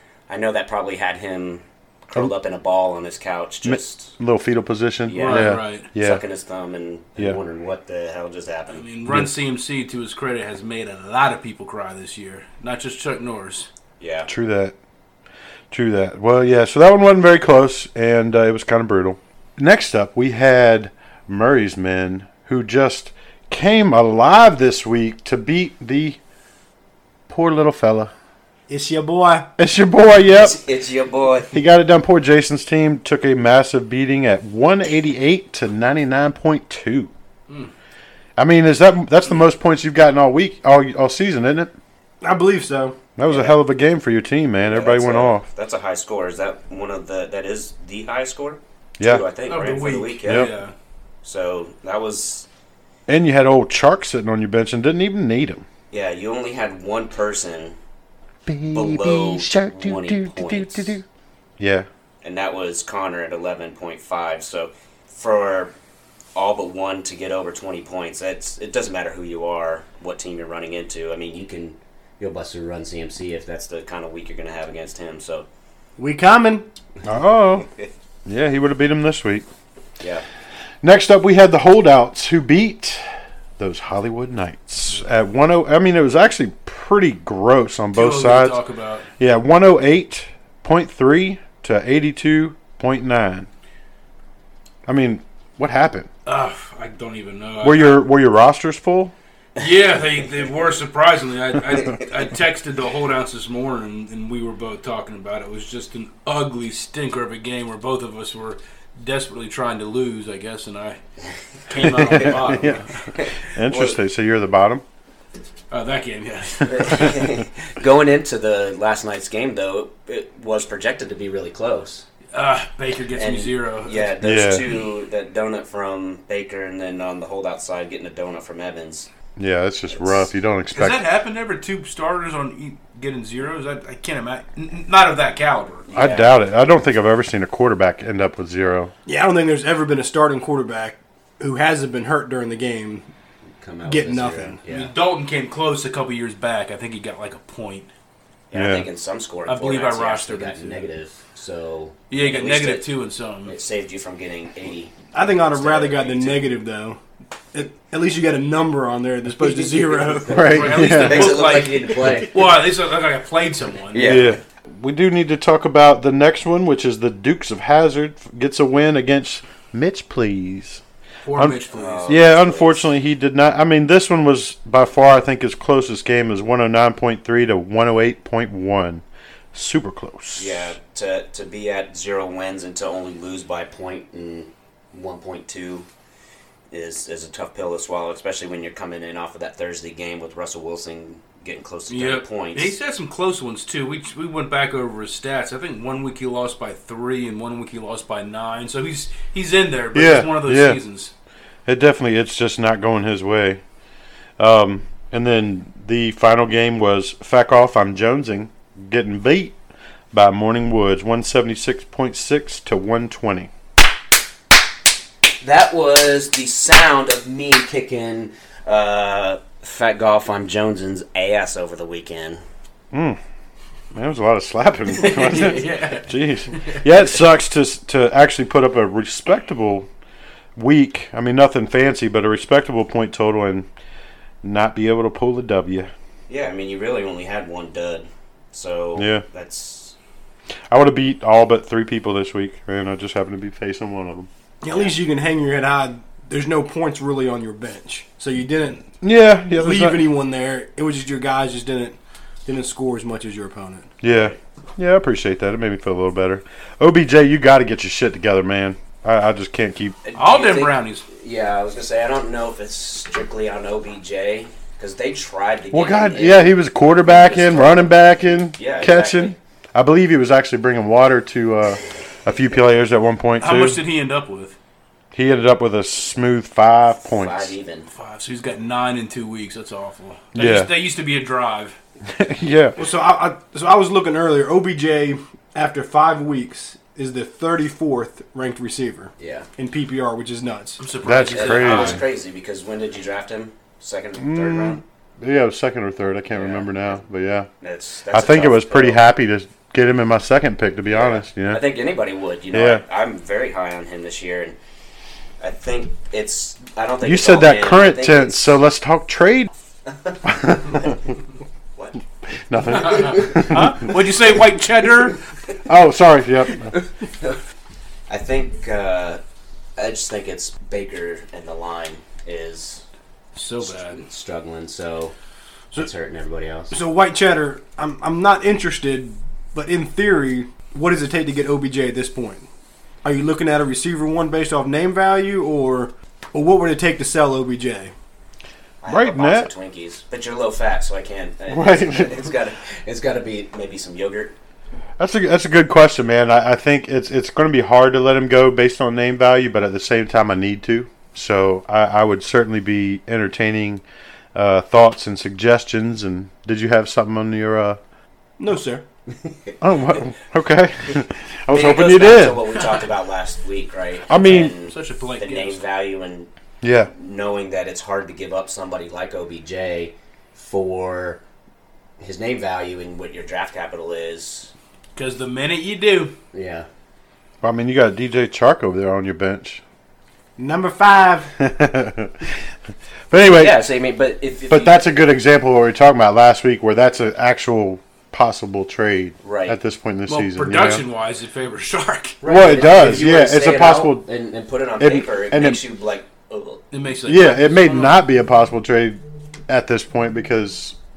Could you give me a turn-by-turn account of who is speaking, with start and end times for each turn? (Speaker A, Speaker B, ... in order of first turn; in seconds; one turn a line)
Speaker A: 0.3-4.2
Speaker B: 3.6-6.2
Speaker A: 5.1-8.9
Speaker C: 5.2-5.9
Speaker C: 8.7-13.7
Speaker B: 9.1-9.3
Speaker A: 14.0-14.3
Speaker B: 14.3-14.8
Speaker B: 15.7-26.2
Speaker B: 27.3-28.1
Speaker D: 28.7-29.5
Speaker B: 29.6-30.6
Speaker A: 30.4-31.6
Speaker B: 31.5-37.1
Speaker B: 38.4-41.7
Speaker D: 42.2-43.0
Speaker B: 43.2-45.5
Speaker A: 43.3-43.6
Speaker A: 44.6-50.5
Speaker B: 49.0-49.2
Speaker C: 49.5-50.7
Speaker B: 50.3-50.5
Speaker A: 51.2-52.5
Speaker B: 53.1-55.7
Speaker A: 55.9-57.8
Speaker B: 58.5-61.0
Speaker A: 58.7-61.0
Speaker B: 61.6-61.9
Speaker A: 62.2-65.7
Speaker A: 66.4-75.5
Speaker D: 76.0-76.7
Speaker B: 77.0-77.7
Speaker B: 78.3-79.5
Speaker A: 80.0-80.2
Speaker B: 80.8-83.0
Speaker B: 83.6-88.6
Speaker C: 87.9-89.1
Speaker B: 89.2-93.5
Speaker B: 94.8-96.1
Speaker C: 96.3-98.0
Speaker B: 97.6-99.1
Speaker C: 99.6-111.0
Speaker C: 111.7-113.0
Speaker A: 111.8-112.6
Speaker B: 112.0-112.8
Speaker A: 113.1-114.0
Speaker B: 113.4-114.8
Speaker C: 115.7-117.2
Speaker A: 116.7-122.1
Speaker C: 122.3-124.1
Speaker A: 123.2-129.1
Speaker B: 124.2-124.7
Speaker B: 129.4-131.0
Speaker A: 129.9-130.3
Speaker C: 130.7-135.8
Speaker A: 135.9-136.3
Speaker B: 135.9-138.9
Speaker D: 139.1-143.1
Speaker A: 143.6-144.9
Speaker D: 143.8-144.6
Speaker C: 144.7-147.9
Speaker A: 148.5-152.8
Speaker B: 148.5-148.9
Speaker C: 149.5-150.8
Speaker C: 152.1-153.5
Speaker A: 153.4-156.5
Speaker D: 155.1-157.0
Speaker D: 157.5-160.5
Speaker A: 159.4-162.4
Speaker B: 160.3-161.4
Speaker C: 160.4-164.2
Speaker A: 163.9-164.4
Speaker B: 164.0-170.8
Speaker C: 171.2-172.2
Speaker B: 171.3-180.8
Speaker A: 171.7-172.9
Speaker A: 180.3-185.9
Speaker A: 186.7-192.8
Speaker C: 191.9-201.1
Speaker B: 199.9-200.8
Speaker B: 201.7-203.6
Speaker B: 204.4-209.6
Speaker B: 210.1-213.5
Speaker A: 215.4-222.4
Speaker B: 222.9-223.2
Speaker B: 223.9-229.9
Speaker C: 225.0-226.9
Speaker B: 230.6-233.7
Speaker B: 234.4-235.9
Speaker A: 236.3-239.9
Speaker B: 239.0-239.2
Speaker B: 240.7-244.3
Speaker D: 244.6-248.9
Speaker A: 244.7-245.0
Speaker B: 249.0-250.1
Speaker D: 249.6-253.9
Speaker B: 254.0-260.0
Speaker A: 254.1-254.4
Speaker A: 260.0-268.0
Speaker C: 260.1-261.0
Speaker B: 265.7-273.8
Speaker A: 268.5-269.4
Speaker C: 273.4-274.6
Speaker B: 275.1-277.5
Speaker A: 277.0-277.9
Speaker C: 277.9-281.8
Speaker B: 280.3-280.7
Speaker B: 282.1-282.8
Speaker D: 282.8-290.8
Speaker A: 289.2-289.5
Speaker C: 290.8-292.0
Speaker B: 291.0-292.0
Speaker A: 291.3-294.8
Speaker B: 294.2-297.5
Speaker A: 296.3-297.0
Speaker A: 297.6-299.0
Speaker B: 298.1-301.6
Speaker A: 300.9-304.6
Speaker B: 302.5-302.8
Speaker A: 305.4-308.6
Speaker B: 307.0-309.5
Speaker B: 310.2-311.0
Speaker B: 312.5-313.8
Speaker A: 312.8-313.5
Speaker C: 312.9-315.2
Speaker B: 315.6-316.7
Speaker A: 317.0-317.4
Speaker A: 318.1-319.2
Speaker A: 319.8-322.8
Speaker C: 323.4-324.0
Speaker A: 323.6-325.1
Speaker A: 325.7-326.8
Speaker D: 326.7-332.5
Speaker D: 333.0-337.9
Speaker A: 338.8-344.4
Speaker B: 338.9-339.5
Speaker B: 341.5-342.3
Speaker B: 345.0-353.8
Speaker B: 354.3-357.8
Speaker D: 358.4-358.8
Speaker A: 359.2-359.6
Speaker B: 359.6-362.6
Speaker A: 361.5-366.3
Speaker B: 364.1-364.6
Speaker C: 364.2-365.6
Speaker B: 366.6-366.9
Speaker A: 366.9-371.2
Speaker A: 372.0-374.5
Speaker C: 374.9-376.1
Speaker A: 376.3-376.7
Speaker B: 377.4-379.6
Speaker D: 380.4-381.3
Speaker B: 381.4-382.4
Speaker B: 383.1-383.7
Speaker A: 383.3-384.9
Speaker B: 384.5-390.8
Speaker A: 389.2-389.6
Speaker C: 390.1-392.2
Speaker A: 392.2-396.6
Speaker B: 392.2-394.1
Speaker B: 394.8-395.6
Speaker C: 396.7-398.0
Speaker B: 397.1-400.8